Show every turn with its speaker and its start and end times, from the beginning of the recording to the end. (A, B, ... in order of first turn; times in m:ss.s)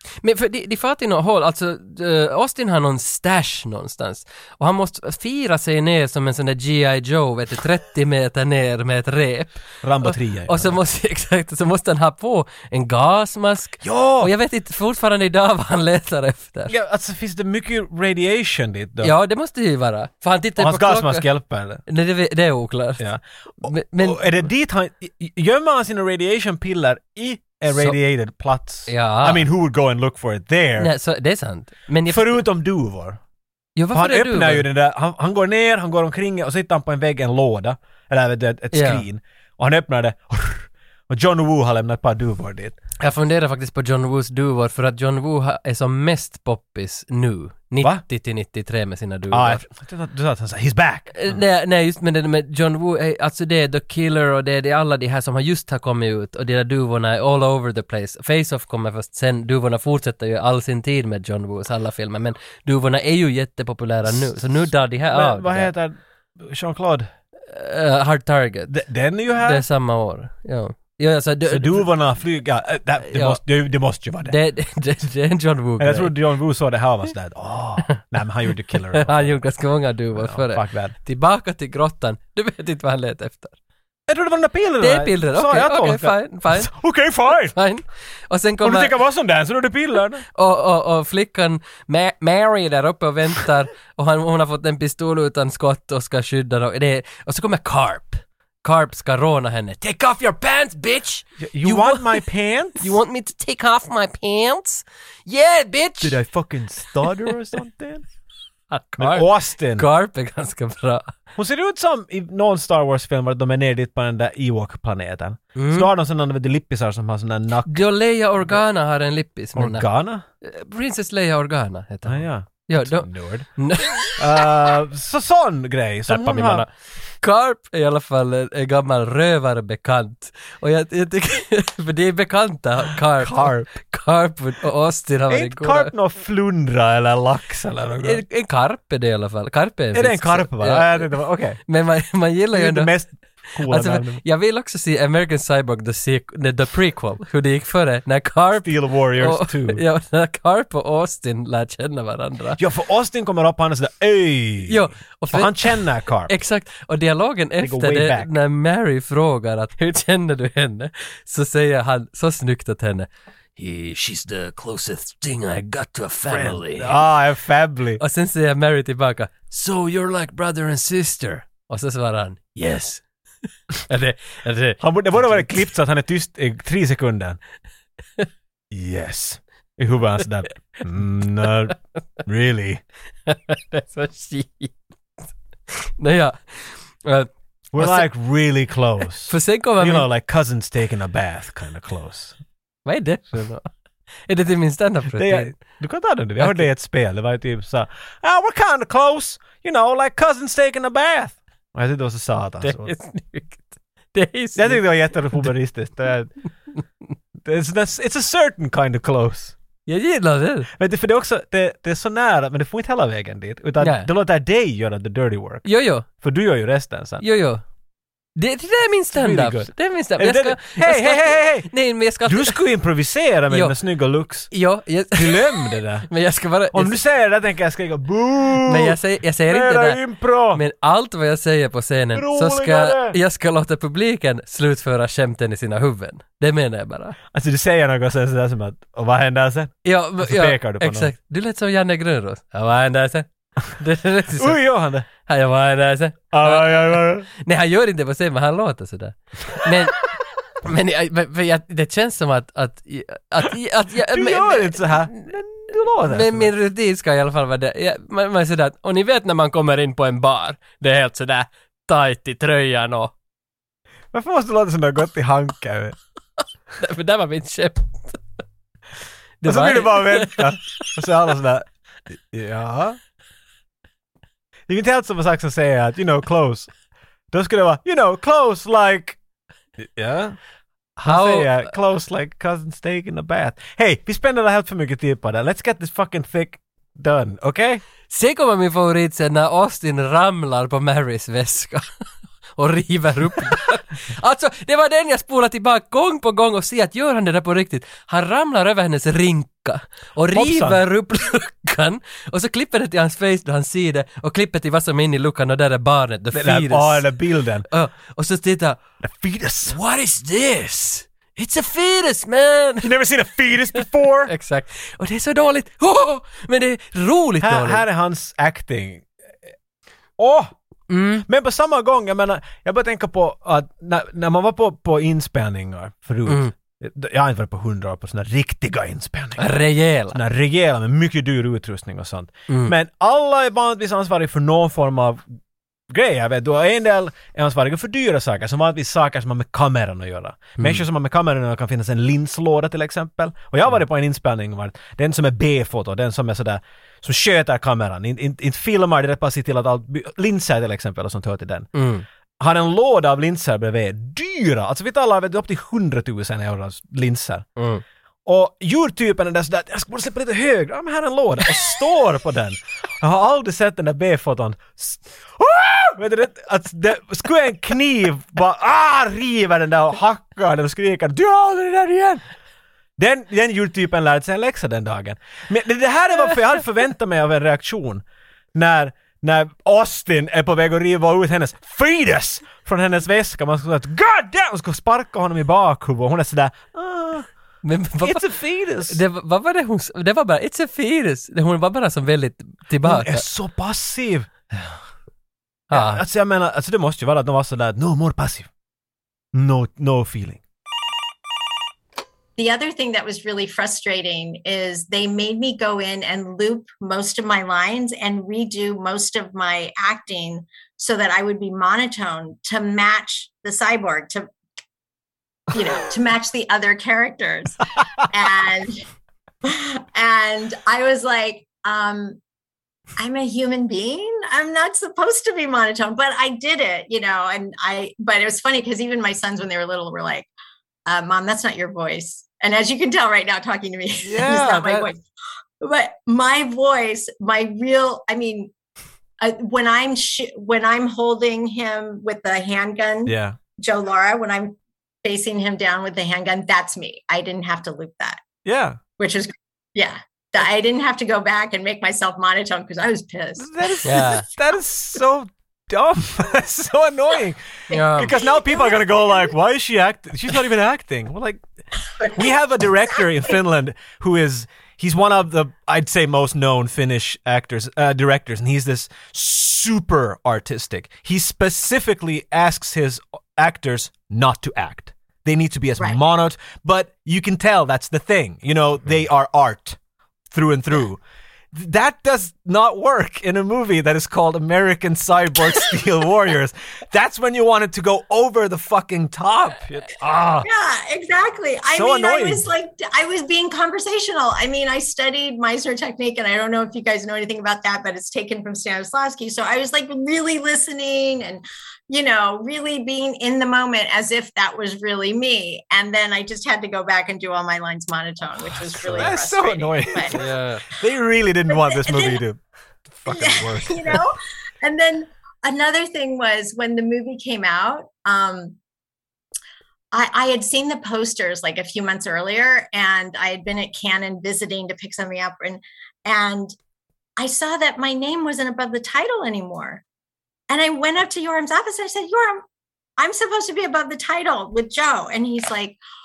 0:00.2-0:16.7 A
0:09.8-0:10.8 B
0:13.8-0:14.3 B
0:16.7-0:19.1 B
0:19.0-0:21.3 A
0:20.6-0:21.8 B
0:21.8-0:23.0 A
0:23.0-0:30.9 B
0:23.6-0:24.4 A
0:27.7-0:28.0 A
0:28.9-0:29.4 A
0:30.8-0:32.4 A
0:32.1-0:33.2 B
0:33.8-0:34.7 A
0:33.9-0:42.7 B
0:38.7-0:39.0 A
0:43.0-0:49.6 A
0:49.3-0:51.4 B
0:51.1-1:05.7 A
1:04.0-1:07.1 B
1:07.5-1:08.7 A
1:08.7-1:09.6 B
1:09.4-1:11.9 A
1:11.5-1:14.4 B
1:13.0-1:13.4 A
1:14.2-1:16.2 A
1:15.8-1:19.4 B
1:18.9-1:23.6 A
1:20.1-1:20.9 B
1:24.1-1:27.6 B
1:24.8-1:26.7 A
1:27.5-1:29.0 A
1:28.6-1:30.2 B
1:30.3-1:42.2 A
1:41.4-1:42.9 B
1:42.8-1:46.2 A
1:46.0-1:48.0 B
1:48.7-1:51.1 A
1:49.0-1:49.8 B
1:51.4-1:57.8 B
1:55.5-1:55.9 A
1:57.7-1:59.9 A
1:59.6-2:00.2 B
2:00.4-2:04.4 A
2:02.0-2:06.6 B
2:06.1-2:15.9 A
2:13.2-2:13.7 B
2:15.3-2:18.2 B
2:18.0-2:22.9 A
2:19.9-2:21.6 B
2:22.5-2:24.2 B
2:23.6-2:32.6 A
2:28.6-2:29.8 B
2:32.6-2:36.3 B
2:34.7-2:47.0 A
2:37.6-2:38.3 B
2:46.3-2:48.0 B
2:48.0-2:53.0 A
2:53.9-2:55.7 A
2:54.8-2:57.4 B
2:58.7-3:02.8 B
3:03.3-3:04.8 A
3:05.7-3:08.1 A
3:07.7-3:12.4 B
3:09.3-3:10.1 A
3:12.8-3:13.7 A
3:14.3-3:15.6 A
3:15.2-3:22.9 B
3:16.4-3:16.6 A
3:22.6-3:25.5 A
3:24.6-3:26.3 B
3:27.4-3:29.5 B
3:29.8-3:30.7 A
3:30.7-3:37.2 B
3:33.8-3:34.1 A
3:35.6-3:36.0 A
3:37.2-3:37.6 A
3:38.4-3:42.6 A
3:39.1-3:41.7 B
3:42.2-3:44.5 B
3:43.5-3:43.8 A
3:44.5-3:47.0 A
3:45.1-3:46.1 B
3:46.7-3:50.6 B
3:48.6-3:50.0 A
3:50.5-3:57.2 A
3:52.1-3:53.2 B
3:57.3-4:01.1 B
3:59.8-4:10.0 A
4:04.4-4:05.1 B
4:06.3-4:07.3 B
4:10.6-4:15.3 A
4:14.0-4:16.5 B
4:16.0-4:23.1 A
4:24.1-4:26.0 B
4:26.8-4:28.2 A
4:29.4-4:30.9 A
4:29.4-4:33.0 B
4:34.7-4:36.7 B
4:37.3-4:39.2 B
4:39.8-4:40.4 B
4:41.0-4:47.8 B
4:41.0-4:41.7 A
4:48.1-4:51.9 A
4:52.6-5:07.1 A
5:00.3-5:00.8 B
5:06.3-5:07.6 B
5:07.7-5:08.8 A
5:09.0-5:09.8 B
5:09.7-5:12.9 A
5:12.8-5:14.3 B
5:13.8-5:17.8 A
5:17.4-5:19.1 B
5:20.2-5:20.5 B
5:20.9-5:21.2 A
5:21.2-5:29.4 B
5:26.3-5:26.5 A
5:29.4-5:30.2 A
5:30.1-5:35.2 B
5:32.5-5:32.7 A
5:35.9-5:51.7 B
5:40.6-5:40.8 A
5:51.7-5:52.0 A
5:52.4-5:57.4 B
5:57.6-5:57.8 A
5:58.2-6:12.2 B
6:13.0-6:27.3 B
6:27.6-6:33.2 A
6:28.0-6:29.0 B
6:32.8-6:34.3 B
6:35.7-6:36.0 A
6:35.7-6:38.5 B
6:39.3-6:40.4 B
6:42.4-6:54.3 C
6:55.5-6:58.8 C
6:59.4-7:02.2 C
7:03.0-7:10.3 C
7:10.9-7:15.0 C
7:14.0-7:14.9 B
7:15.6-7:18.5 C
7:19.2-7:28.2 C
7:23.0-7:23.4 B
7:28.4-7:28.8 B
7:29.0-7:34.0 C
7:33.4-7:41.4 B
7:33.8-7:34.2 A
7:37.7-7:38.1 A
7:38.1-7:39.1 C
7:42.1-7:59.8 B
8:00.3-8:01.0 B
8:01.5-8:10.5 B
8:10.4-8:30.2 C
8:11.7-8:12.4 B
8:28.7-8:34.0 B
8:30.1-8:30.6 A
8:31.5-8:32.2 C
8:33.1-8:38.6 C
8:39.9-8:46.5 C
8:47.2-8:49.8 C
8:50.5-8:52.4 C
8:53.0-8:55.8 C